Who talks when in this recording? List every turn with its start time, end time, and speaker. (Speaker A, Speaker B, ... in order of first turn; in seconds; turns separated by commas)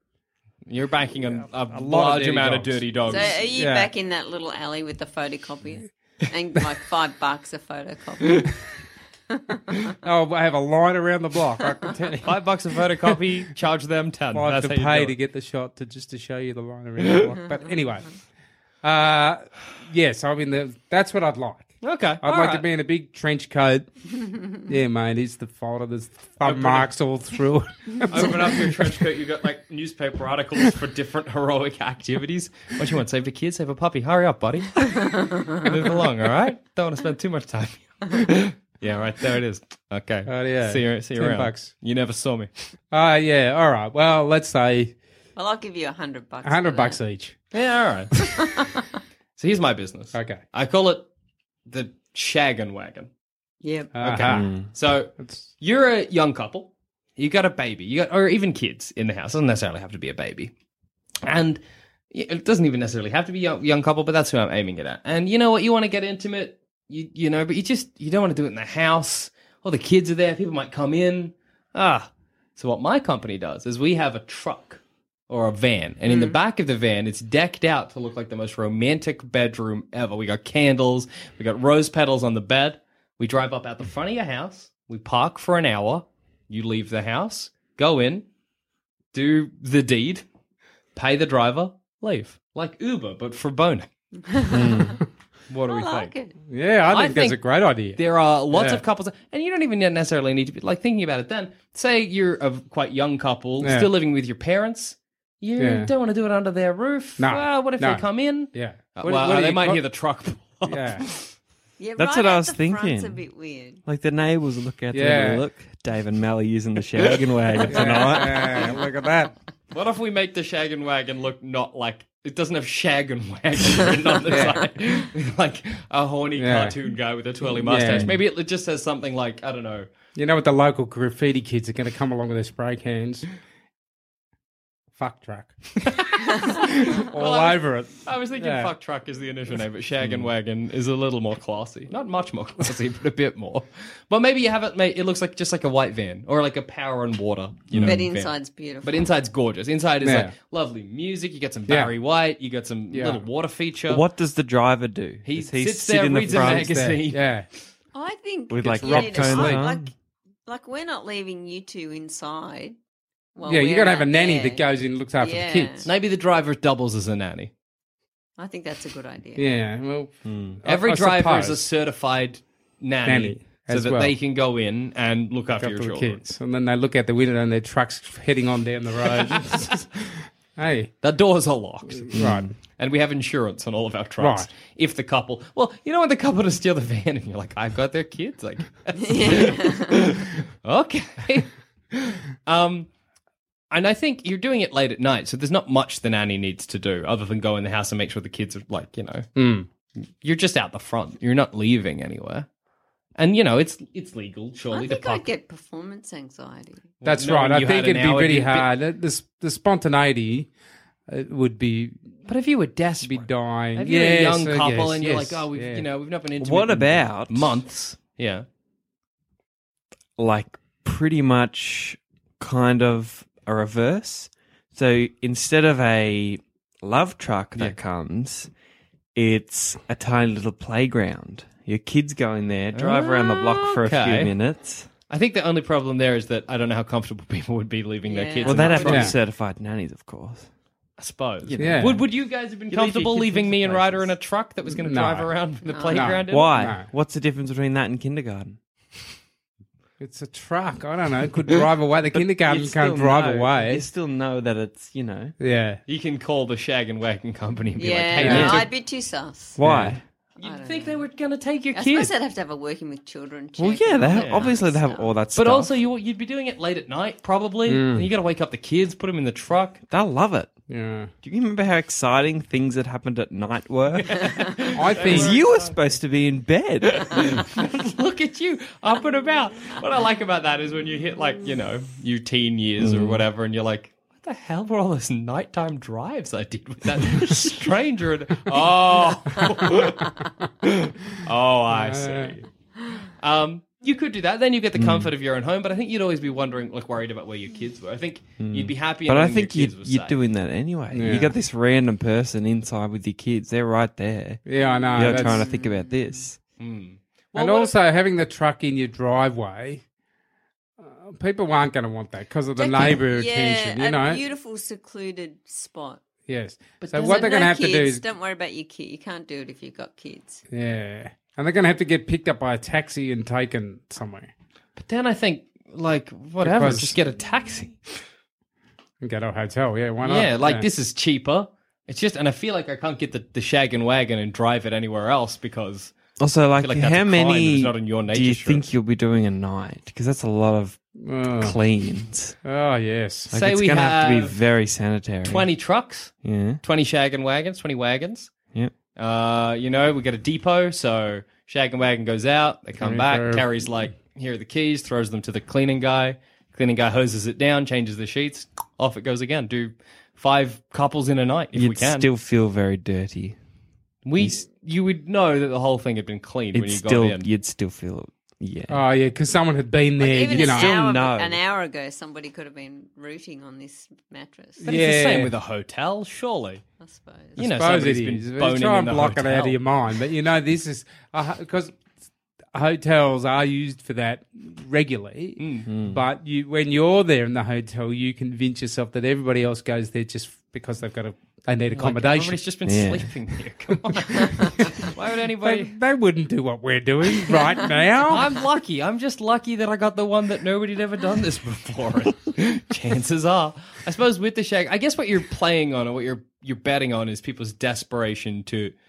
Speaker A: 0.7-3.4, Speaker B: 1.4-3.9, Speaker C: 3.1-8.5, Speaker B: 10.0-12.4, Speaker A: 12.2-15.1, Speaker B: 14.3-18.1, Speaker B: 18.8-23.9, Speaker A: 21.8-22.6, Speaker B: 24.6-29.0, Speaker A: 26.4-26.9, Speaker A: 28.1-42.5, Speaker B: 40.3-41.7, Speaker B: 42.9-45.0, Speaker C: 45.4-47.0, Speaker B: 46.4-47.4, Speaker A: 47.5-48.6, Speaker A: 49.4-51.1, Speaker B: 50.1-50.4, Speaker A: 51.7-53.1, Speaker C: 53.6-53.9, Speaker B: 53.9-54.6, Speaker A: 54.0-60.5, Speaker D: 54.3-54.7, Speaker B: 55.2-55.5, Speaker A: 61.2-61.6, Speaker A: 62.1-88.2, Speaker C: 76.1-76.4, Speaker A: 89.1-90.2, Speaker A: 91.0-93.9, Speaker C: 94.2-95.0, Speaker D: 94.5-95.0, Speaker A: 95.5-96.1, Speaker C: 95.7-96.3, Speaker B: 96.5-98.8, Speaker A: 96.9-97.4, Speaker A: 98.0-111.3, Speaker B: 103.6-103.9, Speaker B: 105.6-105.9, Speaker B: 107.2-109.8, Speaker B: 110.7-111.1, Speaker C: 111.8-113.8, Speaker D: 112.0-113.2, Speaker D: 113.9-118.5, Speaker B: 114.9-115.5, Speaker B: 117.7-119.3, Speaker A: 117.7-118.0, Speaker A: 119.7-129.9, Speaker B: 124.3-124.6, Speaker B: 126.4-126.8, Speaker B: 127.5-128.1, Speaker B: 130.2-133.3, Speaker B: 134.9-138.7, Speaker A: 136.4-154.0, Speaker D: 140.0-140.3, Speaker D: 147.7-148.0, Speaker C: 147.8-149.1, Speaker B: 150.0-150.3, Speaker B: 151.7-151.9, Speaker B: 152.9-153.3, Speaker D: 153.9-156.9, Speaker A: 155.2-157.3, Speaker B: 156.3-157.5, Speaker C: 157.9-159.9, Speaker D: 158.5-159.9, Speaker B: 158.8-159.7, Speaker C: 160.5-162.8, Speaker C: 163.4-164.6, Speaker B: 163.5-165.9, Speaker C: 165.2-165.9, Speaker A: 165.9-167.5, Speaker C: 168.4-169.5, Speaker B: 169.4-171.6, Speaker D: 170.2-170.6, Speaker A: 170.7-176.2, Speaker B: 173.1-174.2, Speaker B: 175.6-180.9, Speaker A: 181.0-192.9, Speaker B: 182.1-182.5, Speaker D: 182.2-182.5, Speaker B: 184.2-184.5, Speaker C: 189.0-190.1, Speaker A: 193.7-199.3, Speaker B: 199.4-199.7, Speaker A: 200.2-202.5, Speaker A: 203.2-205.3, Speaker C: 204.7-206.9, Speaker A: 207.0-208.7, Speaker B: 207.0-210.5, Speaker B: 211.1-212.1, Speaker A: 212.3-218.4, Speaker B: 213.0-215.8, Speaker D: 216.4-217.6, Speaker D: 220.2-228.5, Speaker D: 229.2-234.9, Speaker A: 232.8-234.3, Speaker A: 235.1-239.1, Speaker C: 238.1-239.1, Speaker D: 238.4-240.5, Speaker B: 238.9-239.2, Speaker A: 241.0-246.5, Speaker D: 241.4-242.1, Speaker B: 241.6-242.0, Speaker D: 242.7-244.2, Speaker B: 244.8-245.3, Speaker C: 245.7-246.1, Speaker B: 245.9-246.9, Speaker D: 246.3-248.6, Speaker B: 250.0-253.9, Speaker D: 252.4-255.3, Speaker B: 255.4-255.8, Speaker A: 255.9-258.7, Speaker C: 257.8-259.6, Speaker B: 258.2-258.6, Speaker D: 258.2-258.7, Speaker D: 259.6-260.0, Speaker B: 259.6-260.0, Speaker A: 260.4-262.1, Speaker C: 260.4-261.1, Speaker C: 261.7-265.1, Speaker D: 263.6-265.8, Speaker A: 264.1-264.5, Speaker A: 265.3-269.8, Speaker B: 267.7-268.1, Speaker D: 269.9-270.5, Speaker B: 270.7-271.1, Speaker D: 271.2-277.4, Speaker A: 274.1-275.9, Speaker B: 274.7-275.4, Speaker A: 276.9-292.4, Speaker D: 282.8-283.2, Speaker B: 291.7-292.4, Speaker A: 293.0-300.2, Speaker D: 294.8-295.1, Speaker D: 298.4-304.4, Speaker B: 300.9-301.3, Speaker B: 304.5-305.5, Speaker C: 304.6-306.0, Speaker D: 304.9-306.4, Speaker A: 306.6-307.8, Speaker B: 307.4-309.8, Speaker B: 310.8-314.2, Speaker C: 312.6-316.0, Speaker B: 316.3-318.0, Speaker A: 316.8-317.3, Speaker C: 317.0-320.4, Speaker B: 320.5-324.3, Speaker A: 324.8-327.8, Speaker B: 326.4-327.0, Speaker B: 329.0-330.7, Speaker A: 330.0-335.9, Speaker D: 336.2-340.8, Speaker A: 336.6-338.7, Speaker B: 341.0-341.6, Speaker D: 341.3-342.4, Speaker B: 342.4-343.3, Speaker D: 343.3-345.5, Speaker A: 343.4-344.4, Speaker A: 345.2-348.4, Speaker D: 346.2-346.6, Speaker A: 348.9-362.1, Speaker B: 352.8-353.5, Speaker D: 361.5-363.4, Speaker A: 364.1-367.3, Speaker D: 366.5-368.8, Speaker B: 368.7-370.7, Speaker C: 370.0-374.7, Speaker D: 370.3-371.4, Speaker B: 374.6-375.3, Speaker A: 374.7-376.6, Speaker C: 376.8-377.4, Speaker A: 377.4-379.6, Speaker B: 377.4-381.8, Speaker B: 382.5-392.4, Speaker A: 385.4-385.7, Speaker D: 385.7-386.0, Speaker A: 391.7-395.8, Speaker D: 392.7-393.1, Speaker B: 394.1-394.6, Speaker B: 395.4-398.3, Speaker A: 398.1-408.7